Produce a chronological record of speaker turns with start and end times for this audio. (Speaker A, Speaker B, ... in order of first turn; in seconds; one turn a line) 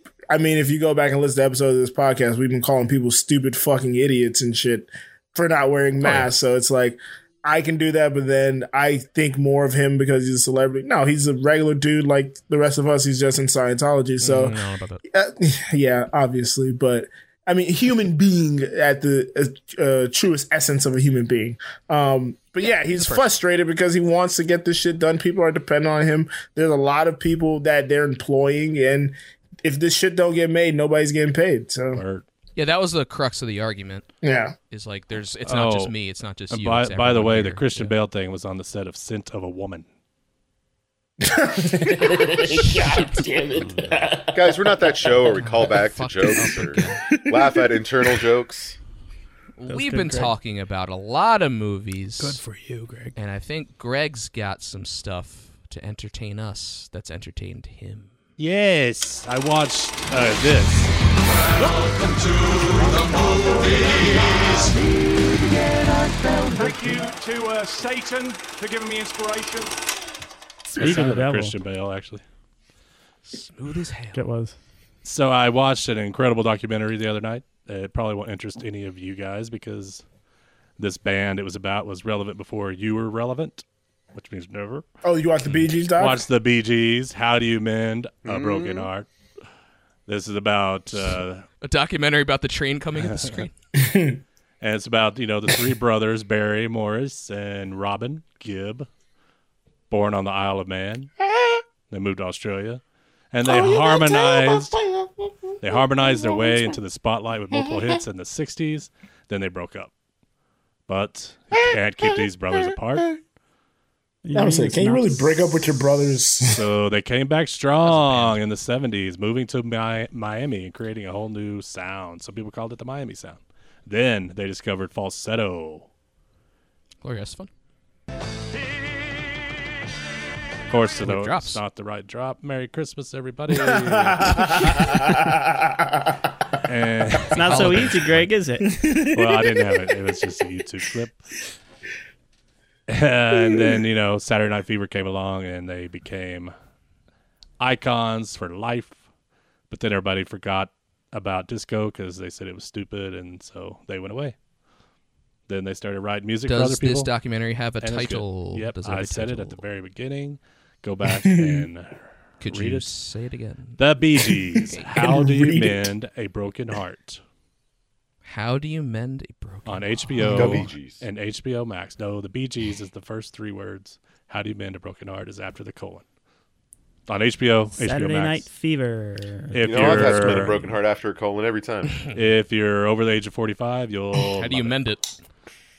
Speaker A: 0.3-32.0
Speaker B: 6.0-6.3
Speaker B: 14.2-15.0
Speaker B: 22.6-23.3
Speaker C: 31.9-32.2
Speaker B: 32.5-34.0
Speaker A: 34.2-34.5
Speaker B: 34.7-37.9
Speaker C: 35.5-35.9
Speaker C: 36.5-39.8
Speaker A: 41.2-45.4
Speaker B: 42.1-43.3
Speaker D: 44.3-48.8
Speaker B: 45.4-47.0
Speaker A: 47.1-48.2
Speaker B: 49.6-52.4
Speaker E: 49.7-50.3
Speaker E: 52.2-53.1
Speaker B: 53.1-58.1
Speaker C: 58.4-60.9
Speaker F: 66.5-69.7
Speaker E: 70.7-71.5
Speaker C: 70.8-72.2
Speaker B: 73.3-74.2
Speaker E: 74.1-74.5
Speaker C: 75.0-80.0
Speaker C: 80.8-84.8
Speaker A: 85.0-86.3
Speaker C: 85.5-89.1
Speaker D: 88.2-88.9
Speaker C: 90.1-91.5
Speaker B: 91.6-93.5
Speaker C: 93.0-93.5
Speaker A: 93.8-94.2
Speaker C: 94.6-98.9
Speaker C: 99.9-101.1
Speaker A: 101.2-101.6
Speaker C: 101.9-102.8
Speaker C: 103.3-104.8
Speaker A: 103.4-106.7
Speaker C: 105.6-109.9
Speaker A: 107.5-107.9
Speaker C: 110.9-113.1
Speaker A: 111.5-113.0
Speaker E: 114.2-115.6
Speaker A: 114.3-116.6
Speaker C: 116.4-125.9
Speaker B: 117.8-118.4
Speaker B: 127.0-127.5
Speaker C: 130.7-135.0
Speaker B: 131.0-131.6
Speaker A: 133.5-136.4
Speaker C: 136.6-138.1
Speaker E: 137.3-138.7
Speaker B: 137.4-138.2
Speaker A: 138.7-139.6
Speaker C: 139.0-141.2
Speaker C: 142.9-146.5
Speaker C: 147.6-149.0
Speaker C: 149.7-154.3
Speaker C: 155.5-157.1
Speaker B: 156.5-159.6
Speaker C: 157.8-162.8
Speaker A: 161.1-161.7
Speaker B: 162.4-163.8
Speaker C: 163.8-167.2
Speaker A: 164.9-165.9
Speaker B: 168.2-170.6
Speaker C: 169.7-176.0
Speaker D: 170.3-171.0
Speaker C: 177.1-178.5
Speaker E: 177.7-180.5
Speaker C: 179.5-180.6
Speaker D: 179.6-182.0
Speaker C: 182.1-184.8
Speaker B: 184.4-185.1